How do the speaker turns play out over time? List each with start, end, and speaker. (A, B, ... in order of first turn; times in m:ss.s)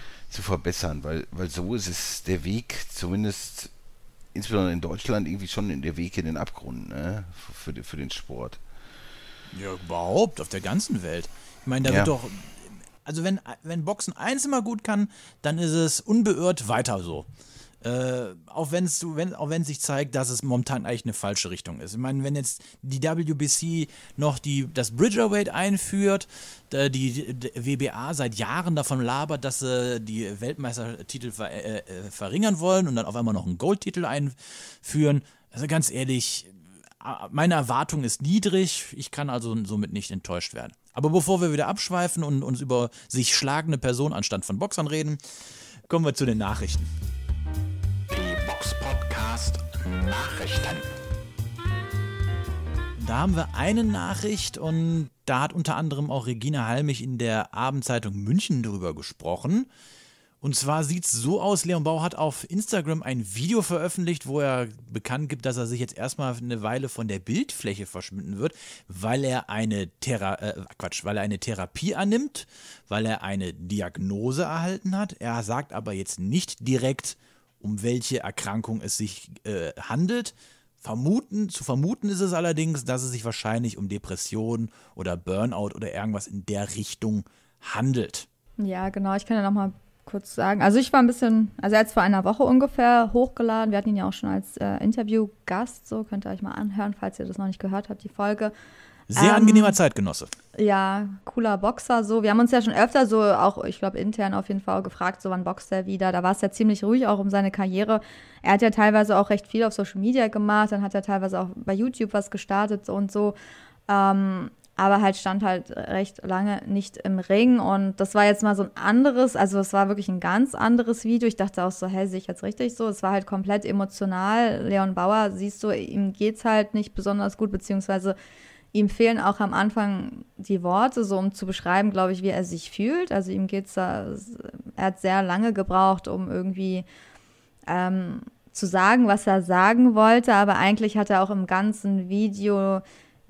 0:00.3-0:03.7 A
0:04.3-0:08.6 A
0:09.5-0:17.3 B
0:11.8-0:12.1 A
0:17.8-0:36.5 B
0:37.0-0:45.2 B
0:45.9-0:46.9 B
0:48.1-0:50.9 C
0:53.0-0:59.7 B
1:00.4-1:28.3 B
1:28.6-1:38.5 D
1:39.1-1:40.3 B
1:39.2-1:39.8 D
1:40.6-1:53.4 D
1:53.9-2:08.2 D
2:08.7-2:16.8 D
2:17.7-2:22.8 D